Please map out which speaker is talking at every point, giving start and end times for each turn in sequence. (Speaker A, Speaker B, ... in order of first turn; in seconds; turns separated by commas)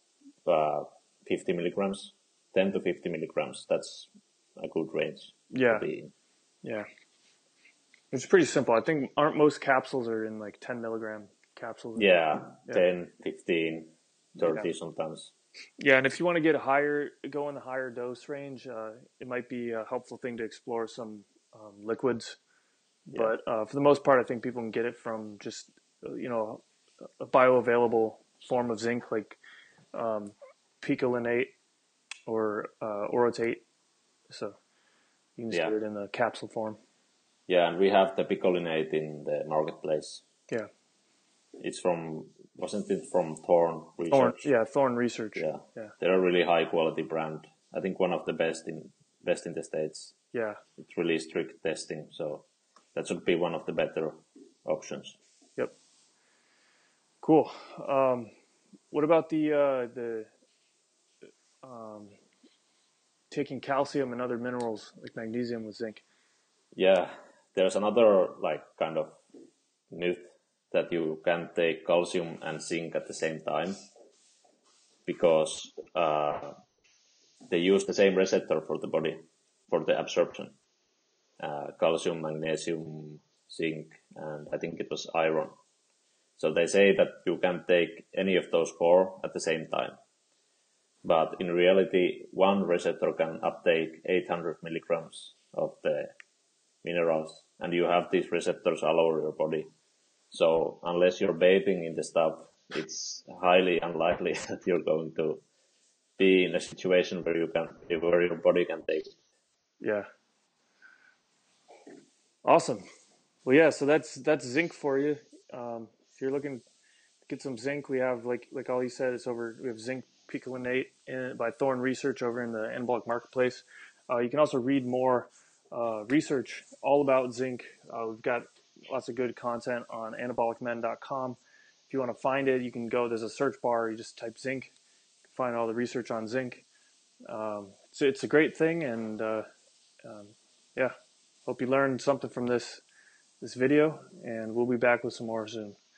Speaker A: 0.5-6.1, Speaker B: 5.5-5.8, Speaker B: 8.1-12.1, Speaker A: 11.9-15.3, Speaker B: 14.4-14.7, Speaker B: 15.8-22.4, Speaker B: 23.1-26.6, Speaker B: 27.2-29.4, Speaker B: 29.9-31.5, Speaker B: 32.3-33.6, Speaker B: 34.3-34.5, Speaker B: 35.4-36.8, Speaker A: 37.5-40.2, Speaker A: 41.6-44.5, Speaker B: 44.1-45.9, Speaker A: 45.4-50.1, Speaker B: 50.3-50.6, Speaker A: 50.8-55.1, Speaker B: 57.2-58.3, Speaker B: 58.9-60.3, Speaker B: 61.6-62.1, Speaker B: 63.3-66.0, Speaker A: 66.7-69.2, Speaker A: 69.9-73.8, Speaker A: 75.0-76.5, Speaker A: 77.5-80.5, Speaker A: 81.4-85.5, Speaker A: 86.4-90.0, Speaker A: 91.0-96.1, Speaker A: 96.8-99.7, Speaker A: 100.3-105.4, Speaker A: 106.2-109.1, Speaker B: 109.8-110.1, Speaker B: 112.4-112.8, Speaker B: 113.4-116.6, Speaker B: 117.3-131.4, Speaker B: 131.9-134.7, Speaker B: 135.3-136.6, Speaker B: 137.3-139.4, Speaker B: 140.0-140.9, Speaker B: 141.4-142.8, Speaker B: 143.4-145.8